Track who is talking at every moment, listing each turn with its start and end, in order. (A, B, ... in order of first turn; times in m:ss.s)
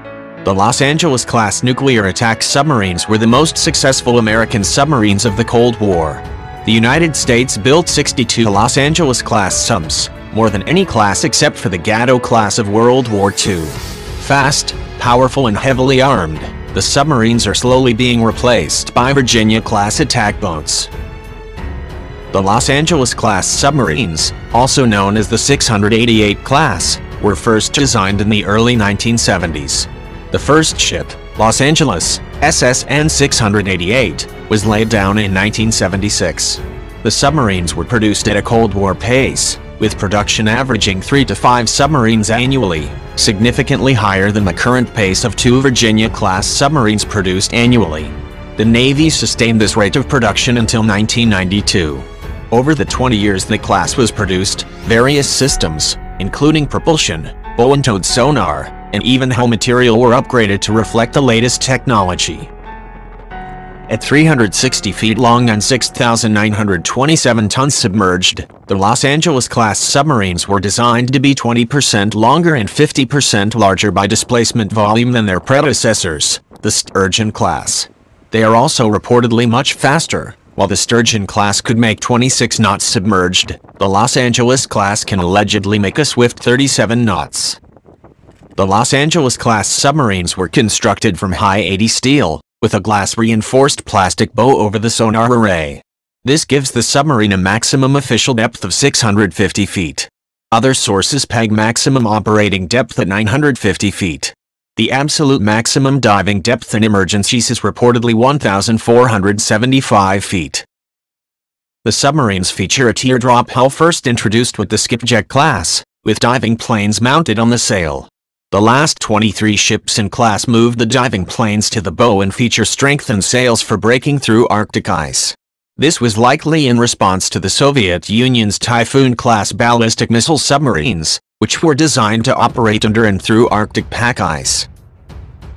0:00.4-0:20.9 A
0:22.3-1:02.5 A
1:03.9-1:27.6 A
1:28.6-1:50.7 A
1:51.8-2:14.7 A